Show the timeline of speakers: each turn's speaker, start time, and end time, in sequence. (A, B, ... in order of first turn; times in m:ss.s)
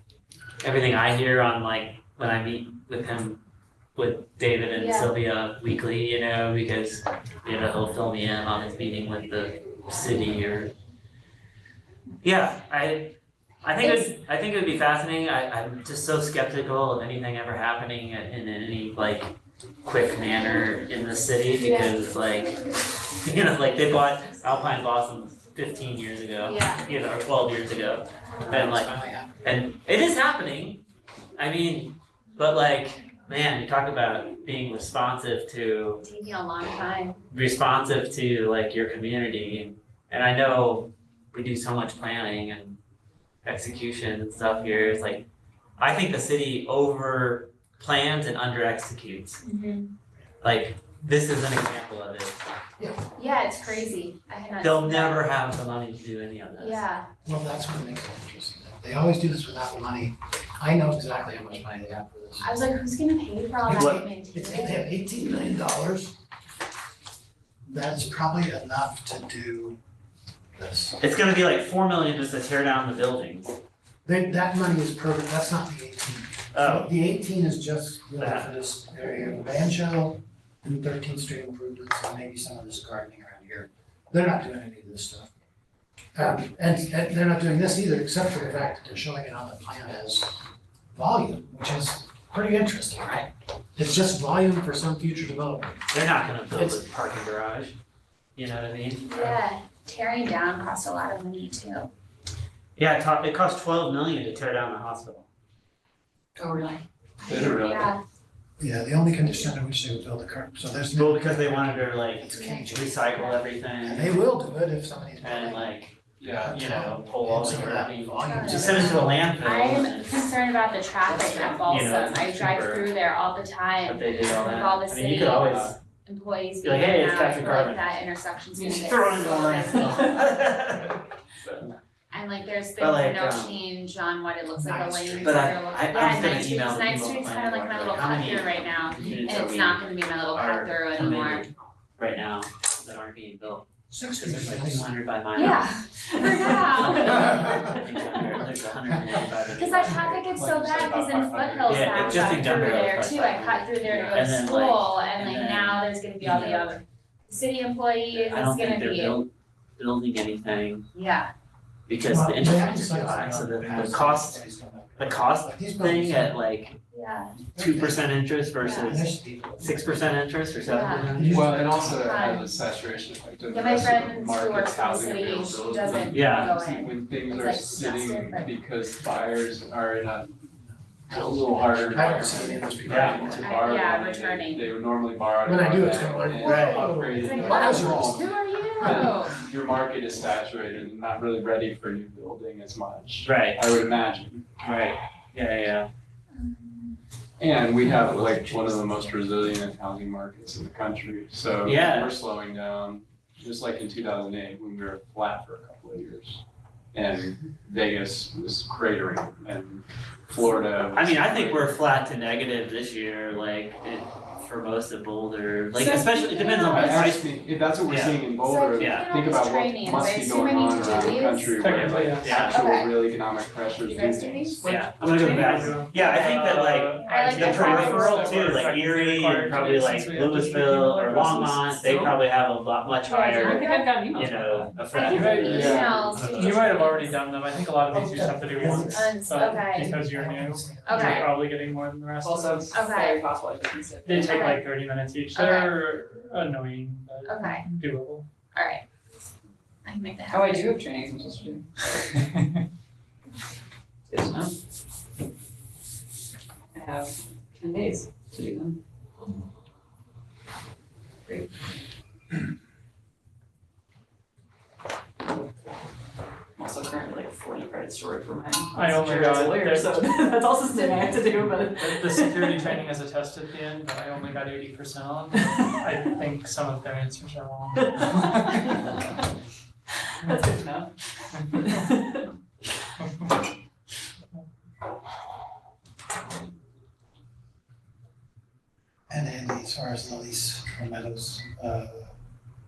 0:00.6-0:03.4 A
0:04.0-0:10.7 A
0:04.7-0:05.1 B
0:12.2-0:22.6 A
0:13.8-0:14.1 B
0:21.6-0:22.0 B
0:23.1-0:30.8 A
0:26.4-0:26.8 B
0:28.4-0:29.4 C
0:31.4-0:36.0 A
0:36.0-0:37.2 B
0:37.3-0:42.8 A
0:43.4-0:45.2 A
0:45.8-0:49.4 A
0:49.4-0:49.9 B
0:50.4-0:52.4 A
0:53.2-0:55.3 B
0:54.6-0:56.8 A
0:56.6-0:57.1 B
0:57.2-1:02.5 C
1:02.4-1:04.8 B
1:03.6-1:06.2 C
1:07.7-1:09.8 C
1:10.6-1:11.0 C
1:11.0-1:13.5 A
1:14.0-1:25.3 C
1:16.5-1:16.9 A
1:18.2-1:18.5 A
1:26.2-1:35.8 C
1:35.9-1:37.8 A
1:36.5-1:36.8 C
1:38.4-1:39.4 A
1:39.0-1:41.9 B
1:42.8-1:45.3 A
1:46.4-1:46.8 D
1:47.2-1:48.0 B
1:47.3-1:47.9 E
1:48.6-1:53.0 C
1:51.0-1:54.3 A
1:52.3-1:53.4 B
1:53.8-1:55.8 C
1:55.2-2:00.3 A
1:56.2-1:56.6 E
1:56.4-1:59.2 C
1:58.2-2:10.3 B
2:01.1-2:01.8 D
2:01.4-2:02.9 A
2:03.8-2:05.8 A
2:06.6-2:07.8 A
2:08.6-2:10.7 D
2:08.6-2:11.0 A
2:11.4-2:11.7 D
2:12.1-2:21.4 B
2:12.8-2:13.6 A
2:14.6-2:15.5 C
2:15.2-2:25.6 A
2:23.9-2:24.9 C
2:25.4-2:27.6 B
2:26.2-2:27.7 D
2:26.3-2:30.2 A
2:27.3-2:27.7 C
2:28.9-2:29.2 C
2:29.5-2:39.2 B
2:30.3-2:33.0 E
2:31.7-2:36.8 A
2:34.0-2:34.2 E
2:38.1-2:40.9 A
2:40.9-2:41.3 B
2:41.9-2:44.4 A
2:42.0-2:46.4 C
2:45.0-2:46.8 A
2:46.9-2:47.4 B
2:47.5-2:50.2 C
2:47.6-2:51.3 A
2:48.6-2:49.0 B
2:50.7-2:52.5 B
2:51.1-2:52.2 C
2:51.3-3:00.3 E
2:53.5-2:58.6 B
2:56.1-2:56.6 A
3:00.6-3:03.5 C
3:01.1-3:14.5 E
3:02.9-3:03.2 A
3:03.4-3:04.7 B
3:05.4-3:09.1 C
3:06.4-3:06.8 A
3:06.4-3:09.4 B
3:13.2-3:13.6 A
3:14.6-3:15.9 A
3:16.4-3:16.9 B
3:17.4-3:26.4 E
3:21.6-3:22.1 A
3:26.9-3:31.8 E
3:30.9-3:37.3 A
3:35.8-3:37.1 B
3:36.7-3:44.7 E
3:37.9-3:38.2 A
3:38.4-3:41.8 B
3:38.8-3:39.1 A
3:41.6-3:42.4 F
3:41.8-3:42.6 A
3:42.4-3:42.9 B
3:43.8-3:44.6 B
3:44.6-3:45.4 D
3:44.6-3:56.9 A
3:45.1-3:52.2 F
3:47.0-3:48.6 B
3:53.1-3:55.7 D
3:53.1-3:54.2 B
3:54.9-3:57.2 B
3:55.1-4:02.7 F
3:55.5-3:55.9 E
3:57.9-4:01.3 C
3:58.8-4:00.0 B
4:00.8-4:01.3 B
4:02.2-4:04.6 D
4:02.7-4:03.3 B
4:04.0-4:08.3 F
4:04.2-4:04.7 B
4:05.4-4:05.8 B
4:07.3-4:07.7 B
4:08.6-4:08.8 B
4:09.8-4:10.8 B
4:10.3-4:12.0 D
4:14.1-4:14.5 D
4:16.8-4:18.8 D
4:26.6-4:32.8 D
4:28.7-4:38.7 F
4:35.3-4:35.7 D
4:37.8-4:39.1 D
4:40.2-4:42.3 D
4:49.1-4:52.1 C